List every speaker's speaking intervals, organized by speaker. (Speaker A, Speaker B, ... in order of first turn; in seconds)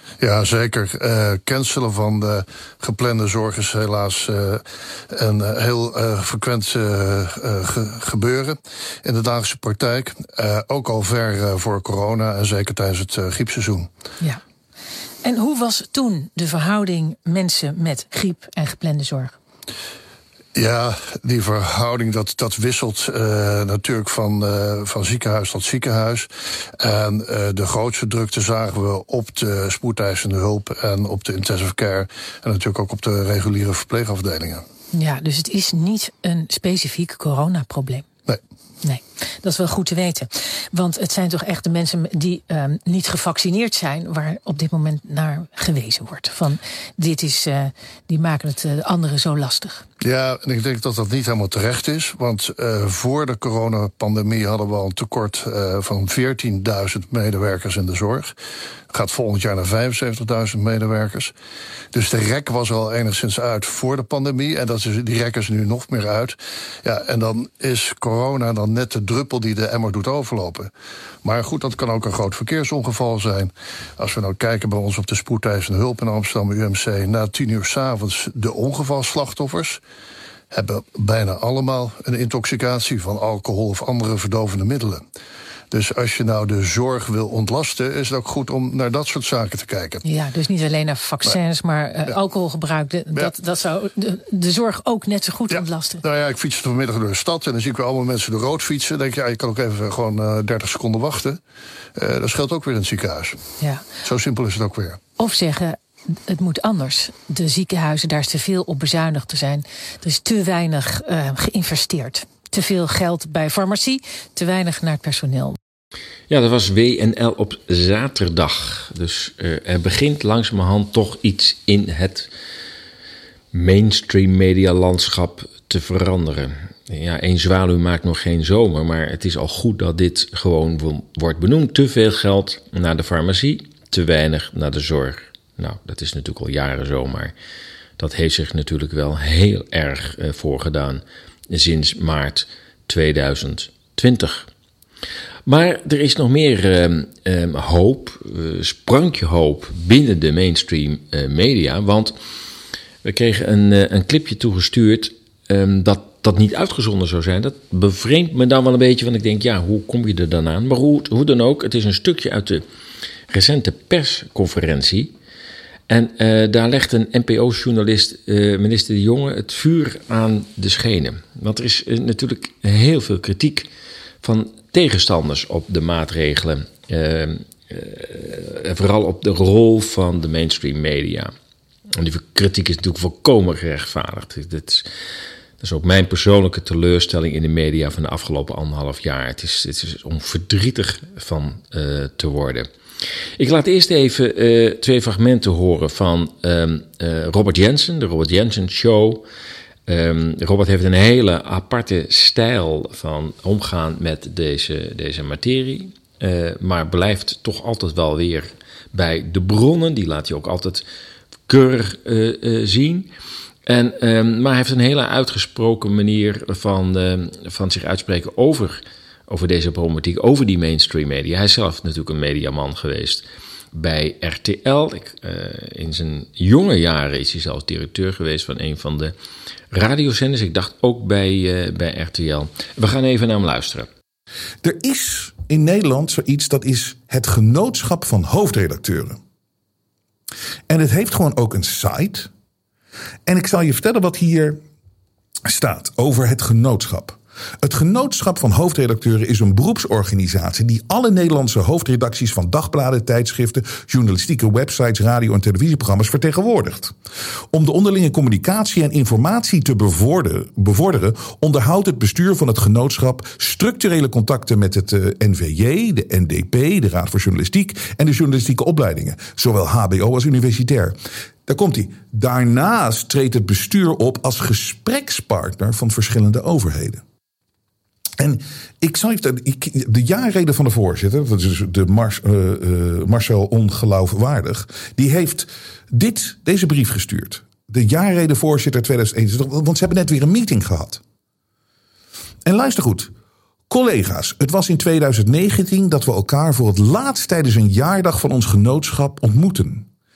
Speaker A: 0.2-13.9, 20.6-34.6, 50.0-58.4, 58.9-61.3, 61.9-70.7, 71.2-79.8, 80.5-85.1, 85.7-90.0, 95.5-101.4, 102.0-103.4, 104.0-105.0
Speaker B: 15.2-19.4, 34.9-38.1, 38.8-49.9, 90.0-96.0, 103.6-103.8, 105.2-115.6
Speaker C: 116.3-122.3, 123.5-137.3, 138.0-144.5, 145.5-152.2, 153.0-162.7, 163.3-165.1, 165.9-173.7, 174.2-181.3, 181.9-184.9, 185.6-192.7, 193.4-199.2, 199.9-210.8, 211.5-213.1, 213.7-229.1, 229.7-233.9
Speaker D: 234.6-239.2, 240.7-242.3, 243.3-244.6, 245.4-256.9, 257.5-277.0, 278.2-291.0, 292.4-293.1, 293.7-299.9